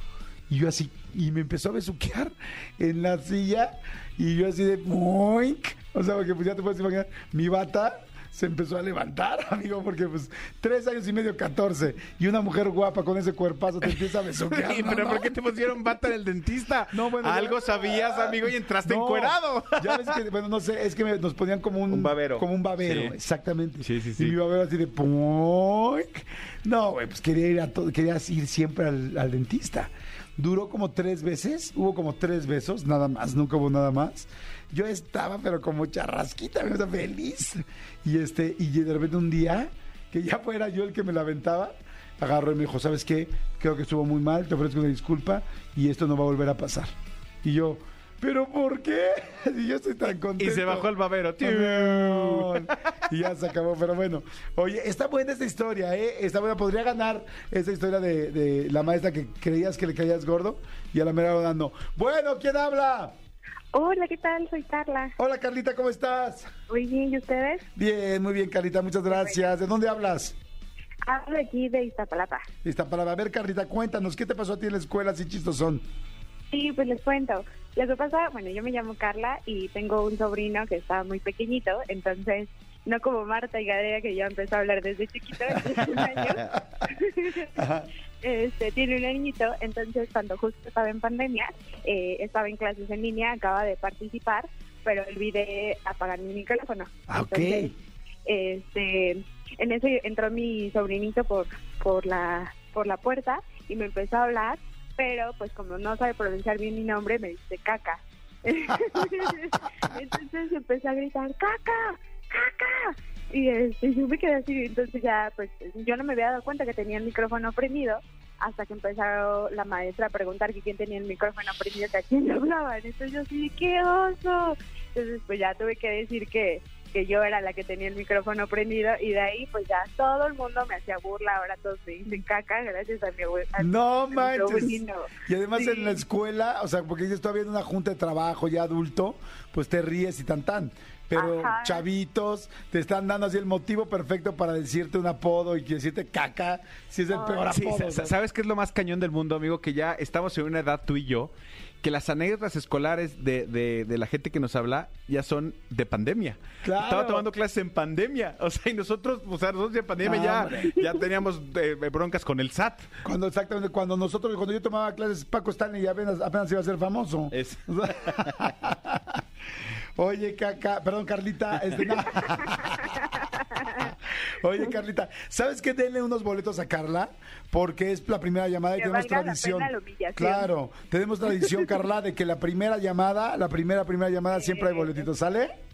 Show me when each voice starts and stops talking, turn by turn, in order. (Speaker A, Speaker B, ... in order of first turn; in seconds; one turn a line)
Speaker A: 0.5-15.4
Speaker B: 13.8-20.2
Speaker A: 16.9-46.9
Speaker B: 21.9-23.2
Speaker B: 23.8-24.4
Speaker A: 47.4-63.1
Speaker B: 50.4-52.8
Speaker C: 63.7-65.2
Speaker A: 65.2-66.5
Speaker C: 66.7-67.6
Speaker A: 67.8-70.3
Speaker C: 71.0-72.5
Speaker A: 72.6-75.8
Speaker C: 76.5-87.5
Speaker A: 87.5-87.9
Speaker C: 88.2-97.7
Speaker A: 97.1-97.8
Speaker C: 98.3-136.0
Speaker A: 133.6-148.1
Speaker C: 141.1-141.8
Speaker B: 147.5-162.9
Speaker A: 156.6-157.3
Speaker A: 160.0-160.8
Speaker A: 163.1-169.1
Speaker B: 167.3-168.5
Speaker A: 170.0-172.9
Speaker C: 172.9-173.6
Speaker A: 173.8-185.5
Speaker C: 178.8-180.5
Speaker C: 184.3-185.0